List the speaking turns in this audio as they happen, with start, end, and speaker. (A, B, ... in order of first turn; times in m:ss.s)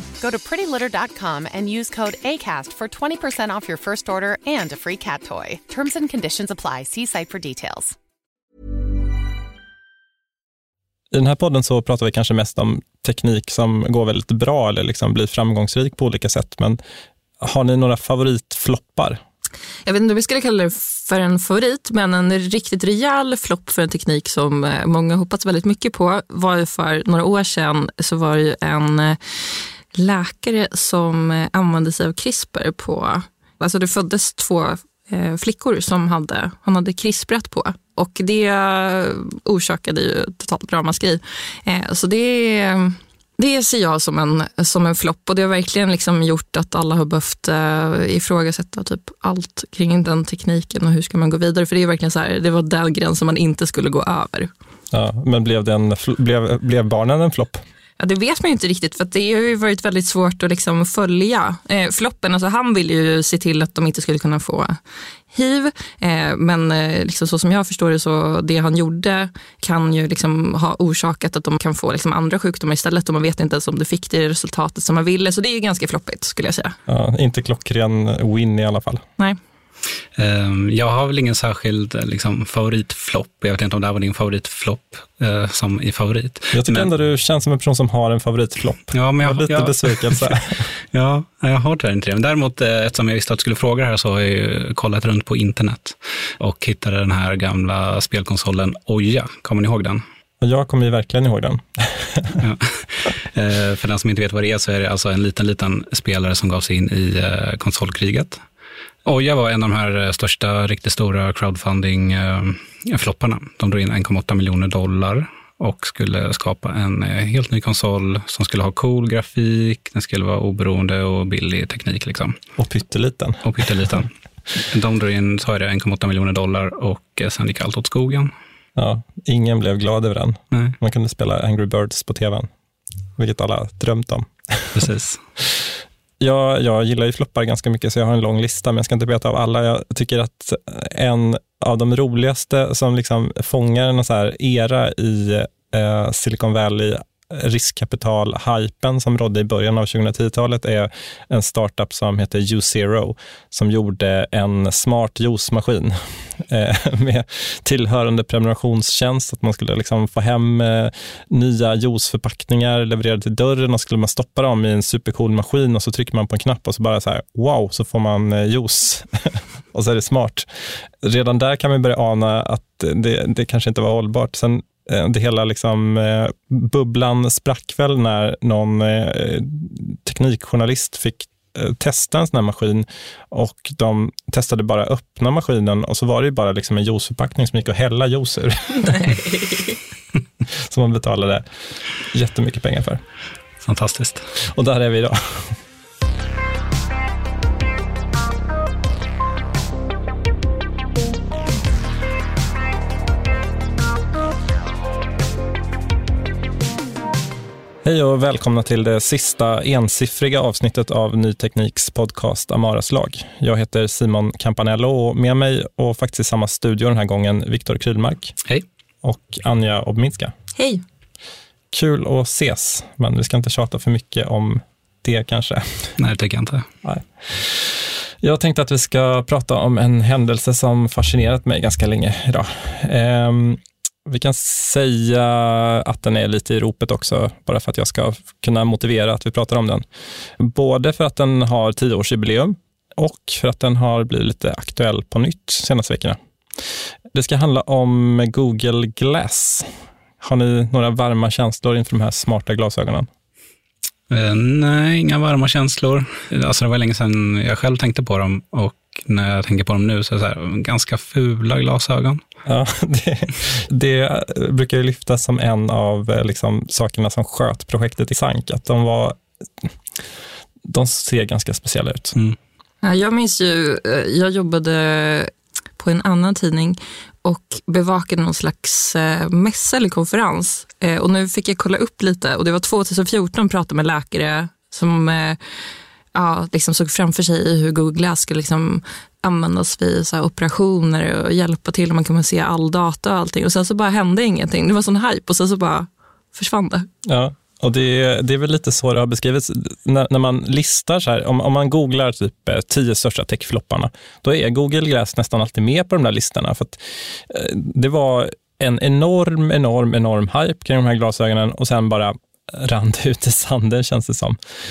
0:00.2-0:08.0 A
0:11.1-0:16.8 B
0:17.4-0:19.2 B
0:19.9-0:29.2 C
0:29.9-0:54.5 C
0:54.9-0:57.6 B
0:58.0-1:04.8 C
1:05.3-1:16.8 C
1:16.9-1:19.0 B
1:20.2-1:26.9 D
1:26.5-1:30.7 B
1:28.9-1:30.4 D
1:30.9-1:40.0 D
1:40.4-1:42.4 B
1:42.4-1:48.4 D
1:49.1-2:02.4 D
2:02.6-2:04.0 B
2:03.4-2:04.1 D
2:04.7-2:08.3 D
2:08.8-2:12.5 B
2:13.2-2:14.8 B
2:14.8-2:15.2 D
2:16.2-2:50.5 B
2:51.0-3:09.4 B
3:10.6-3:11.5 B
3:12.0-3:13.0 B
3:13.6-3:14.2 D
3:14.5-3:15.6 B
3:27.8-3:38.4 B
3:39.0-3:40.3 B
3:40.6-3:40.8 C
3:41.7-3:45.9 B
3:46.0-3:46.6 D
3:46.8-3:59.9 B
4:00.4-4:06.2 B
4:07.1-4:09.7 B
4:10.2-4:13.1 B
4:14.1-4:22.2 D
4:22.5-4:29.7 B
4:30.7-4:32.2 B
4:32.8-4:45.4 C
4:46.1-4:56.9 C
4:57.0-5:14.4 B